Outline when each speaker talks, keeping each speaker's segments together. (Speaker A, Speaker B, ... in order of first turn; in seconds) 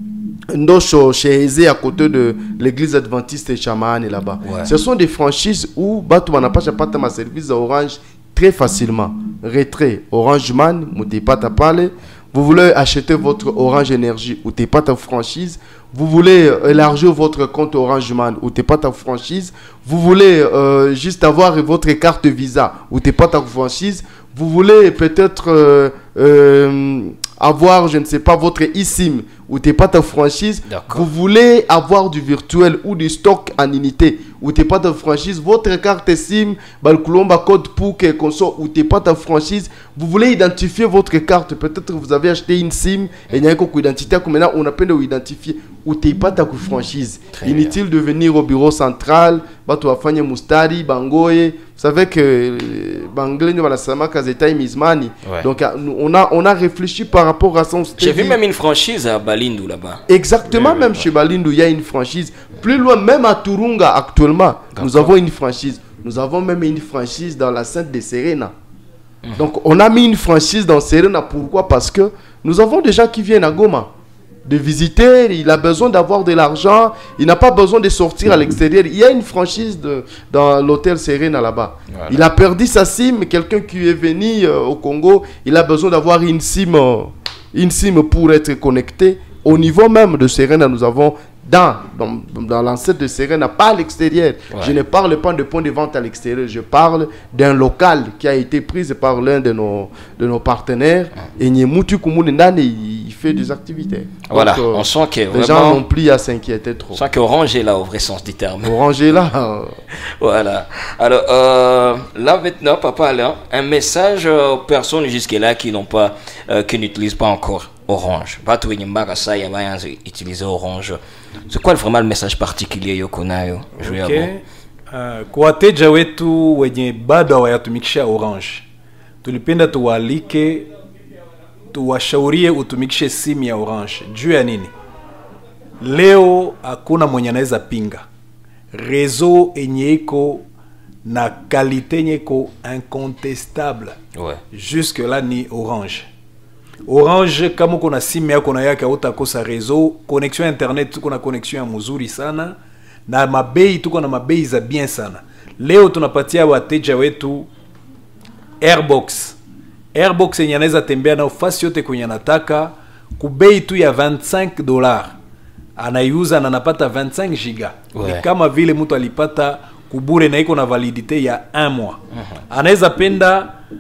Speaker A: 0.5-58.4, 60.1-68.5, 69.4-73.9, 74.5-107.0, 108.6-109.8
Speaker B: 4.4-4.7, 30.7-31.1, 47.3-47.7, 58.0-61.1, 64.8-65.1, 81.9-82.2, 94.5-94.8, 104.3-105.8, 106.9-108.8, 110.2-124.3, 144.2-144.4, 167.9-168.3
Speaker C: 123.8-128.7, 129.2-130.7, 131.7-134.7, 135.8-138.1, 138.7-140.5, 141.0-144.0, 144.5-146.1, 146.9-152.6, 153.1-157.5, 158.6-159.4, 159.9-165.2, 165.8-173.6